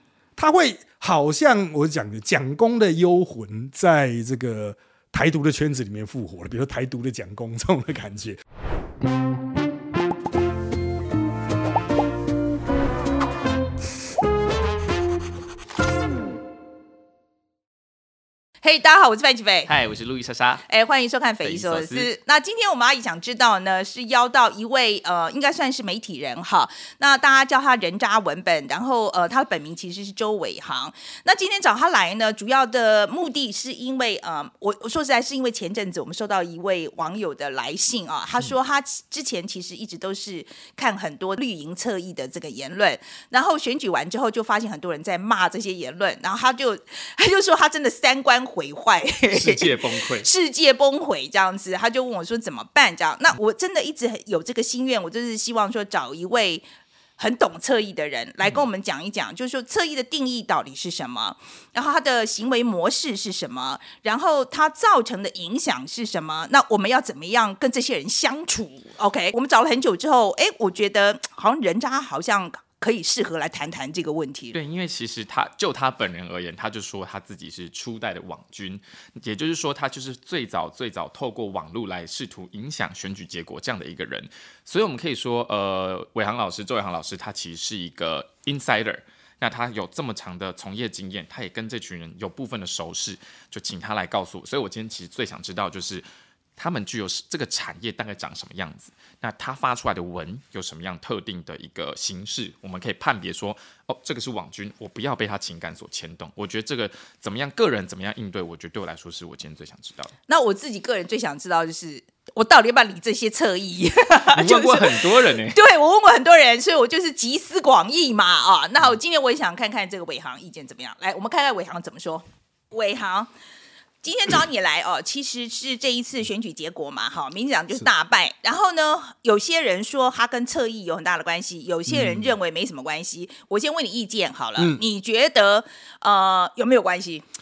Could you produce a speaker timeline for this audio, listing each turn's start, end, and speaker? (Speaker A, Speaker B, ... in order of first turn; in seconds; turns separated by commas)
Speaker A: 0.3-8.4, Speaker B: 18.6-19.7, Speaker C: 19.7-20.6, Speaker B: 20.7-56.6, Speaker C: 21.4-22.1, Speaker C: 49.3-50.3, Speaker B: 57.2-74.5, Speaker C: 74.5-96.0, Speaker C: 96.6-110.1, Speaker B: 110.3-123.3, Speaker C: 114.3-115.6, Speaker B: 124.0-137.2, Speaker A: 131.9-132.3